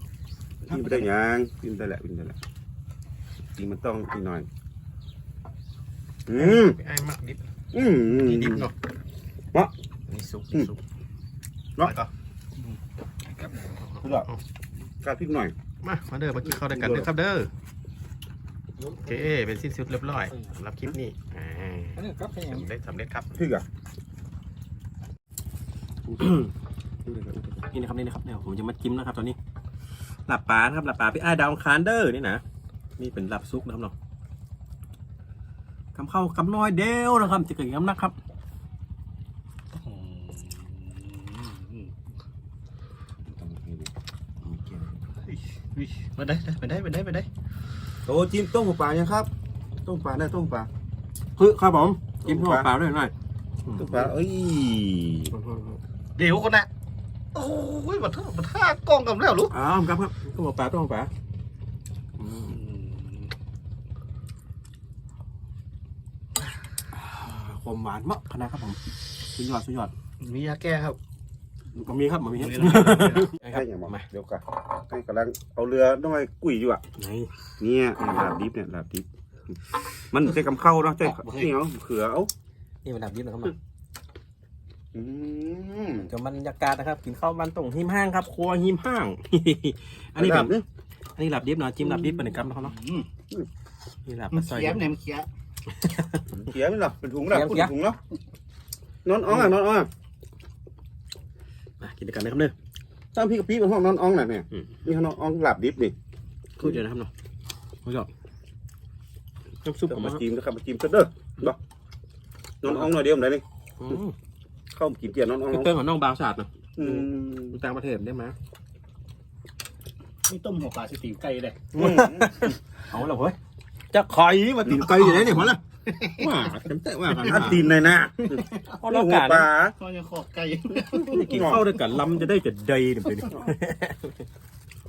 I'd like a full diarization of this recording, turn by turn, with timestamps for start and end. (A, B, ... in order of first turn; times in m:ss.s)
0:00.7-0:02.4 A
0:03.6-0:04.5 A
0:06.3-0:06.8 A
0:06.3-0:07.4 B
0:07.7-0:08.7 A
0:08.1-0:08.7 B
0:10.1-0:10.8 B
0:11.8-0:12.1 B
0:13.4-0:13.7 C
0:13.7-0:14.4 B
0:14.0-0:14.3 A
0:15.0-0:15.5 A
0:15.8-0:17.5 B
0:16.4-0:17.1 A
0:18.9-0:23.4 B
0:22.0-0:22.6 C
0:23.4-0:23.6 A
0:26.2-0:26.5 B
0:27.0-0:27.6 A
0:27.6-0:29.4 B
0:30.3-0:32.4 B
0:33.0-0:33.9 B
0:36.0-0:38.1 B
0:39.7-0:41.9 C
0:43.3-0:45.0 A
0:45.3-0:47.3 C
0:48.1-0:49.3 A
0:49.8-0:50.7 A
0:51.4-0:53.1 B
0:52.2-0:52.7 A
0:53.6-0:54.2 B
0:53.8-0:55.3 A
0:55.3-0:55.8 B
0:56.2-0:56.7 C
0:57.3-0:59.5 C
0:59.5-1:01.1 B
1:02.2-1:02.6 B
1:02.5-1:03.3 C
1:06.9-1:09.9 B
1:10.2-1:11.0 C
1:11.8-1:14.1 B
1:12.4-1:13.3 C
1:13.4-1:16.8 A
1:17.0-1:17.3 B
1:17.6-1:19.1 A
1:20.1-1:22.3 A
1:21.0-1:21.5 C
1:22.8-1:23.6 B
1:24.9-1:26.1 A
1:26.0-1:30.6 B
1:30.2-1:30.6 A
1:31.2-1:32.8 B
1:31.8-1:33.1 C
1:34.1-1:34.9 B
1:34.3-1:35.3 C
1:35.7-1:36.2 B
1:36.3-1:38.0 A
1:37.3-1:37.7 B
1:39.0-1:39.9 A
1:39.3-1:39.5 B
1:41.8-1:42.5 B
1:43.1-1:46.0 A
1:46.6-1:47.1 B
1:47.8-1:48.1 B
1:49.6-1:50.2 B
1:49.9-1:51.6 A
1:52.6-1:53.4 A
1:52.6-1:53.0 B
1:53.8-1:54.2 B
1:54.7-1:55.7 A
1:55.5-1:58.4 B
1:56.8-1:57.6 A
2:00.3-2:01.6 C
2:01.7-2:03.4 B
2:01.7-2:02.3 A
2:03.9-2:07.6 B
2:04.6-2:05.0 A
2:04.9-2:06.5 C
2:07.2-2:07.6 C
2:07.2-2:09.8 A
2:08.2-2:08.8 C
2:08.8-2:09.5 B
2:09.8-2:11.6 C
2:10.9-2:14.2 B
2:11.1-2:11.6 A